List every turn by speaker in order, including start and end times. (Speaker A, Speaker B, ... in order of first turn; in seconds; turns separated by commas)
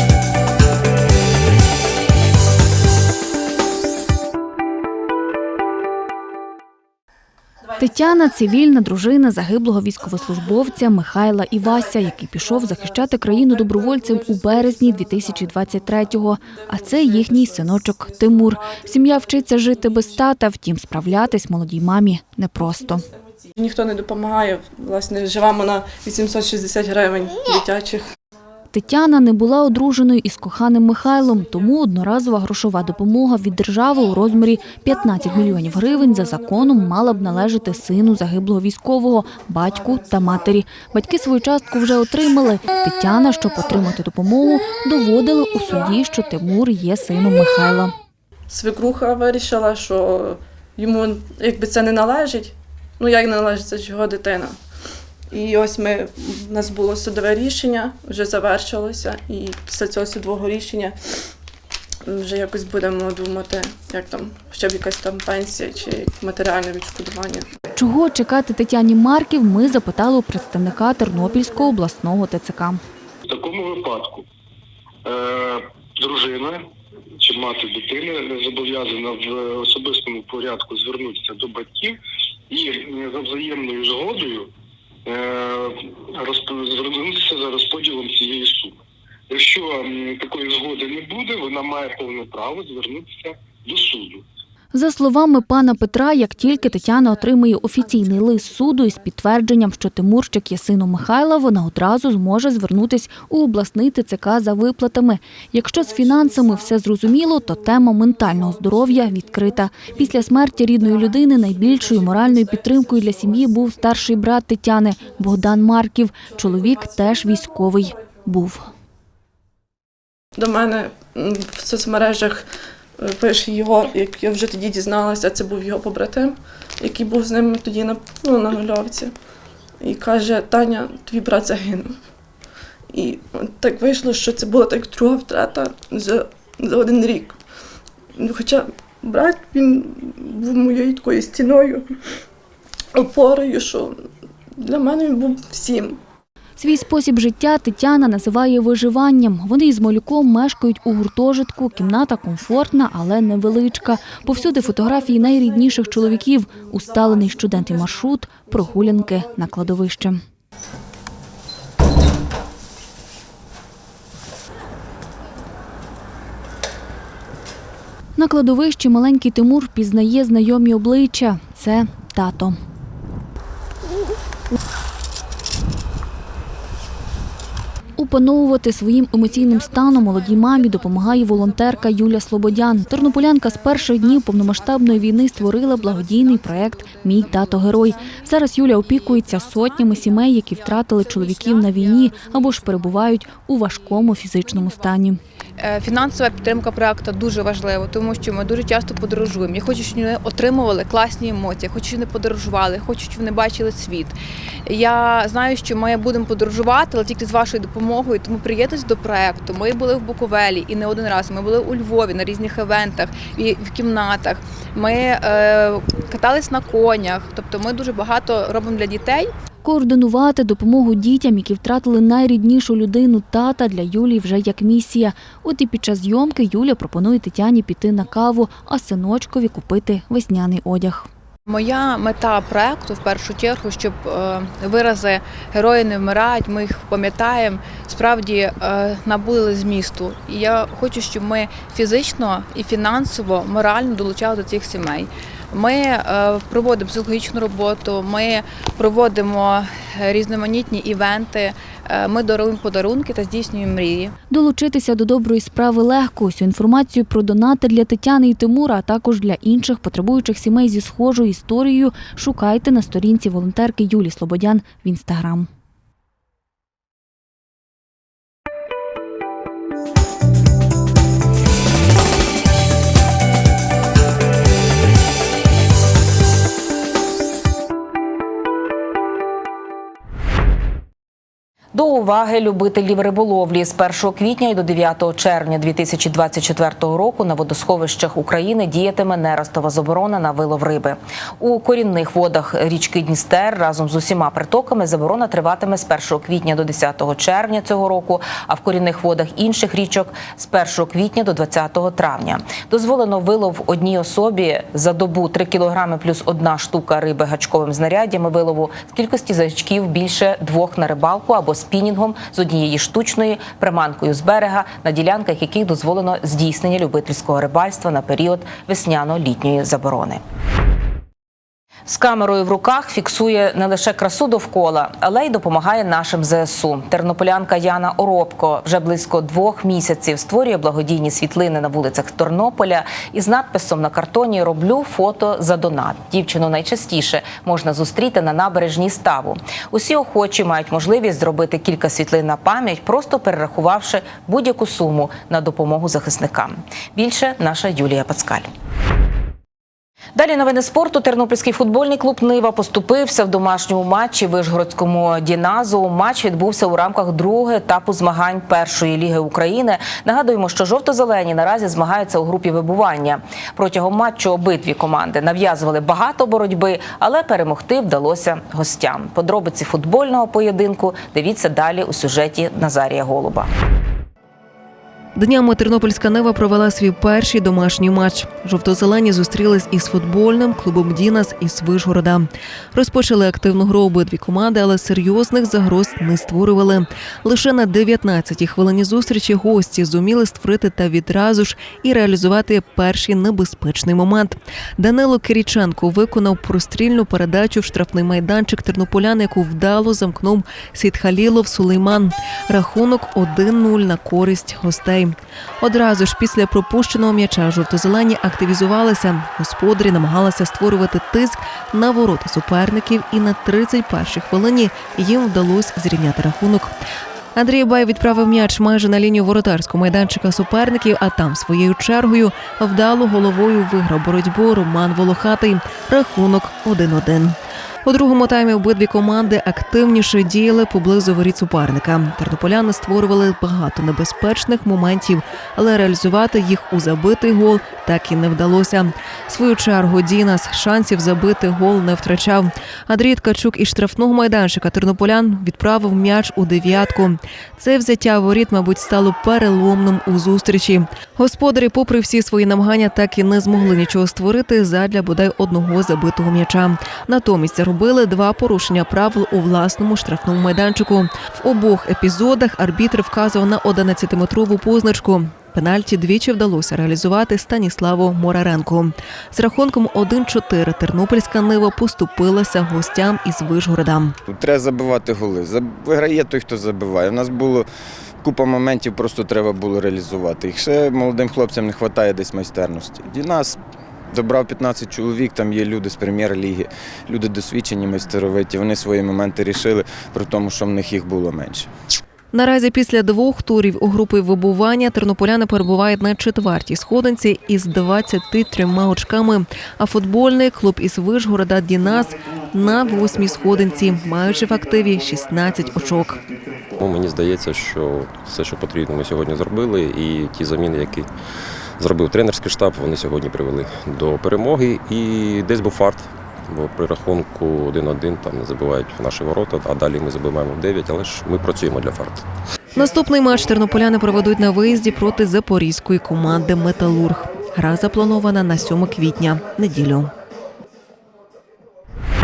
Speaker A: 7.8-23.0, Speaker B: 23.6-28.1, Speaker A: 28.7-47.9, Speaker B: 48.5-54.6, Speaker B: 55.3-61.3, Speaker B: 62.0-67.5, Speaker A: 67.7-72.8, Speaker C: 73.2-74.2, Speaker C: 75.0-76.7, Speaker C: 77.2-82.0, Speaker C: 82.5-84.5, Speaker C: 85.0-88.8, Speaker C: 89.3-94.2, Speaker A: 94.7-118.7, Speaker B: 120.3-129.1, Speaker B: 129.8-132.0, Speaker B: 132.9-137.4, Speaker B: 138.2-141.8, Speaker B: 142.9-144.0, Speaker B: 144.6-146.0, Speaker A: 146.6-160.2, Speaker A: 168.2-172.6, Speaker A: 178.0-195.2, Speaker D: 195.6-204.2, Speaker D: 204.7-219.3, Speaker A: 219.6-231.1, Speaker D: 231.5-254.1, Speaker A: 254.3-265.5, Speaker E: 281.7-320.2, Speaker E: 321.9-348.5, Speaker E: 350.1-373.5, Speaker F: 375.1-416.7, Speaker F: 417.4-474.1, Speaker G: 474.2-477.7, Speaker G: 478.2-483.6, Speaker G: 484.1-491.7, Speaker F: 492.3-506.2, Speaker H: 506.8-511.1, Speaker H: 511.8-522.3, Speaker F: 522.8-530.1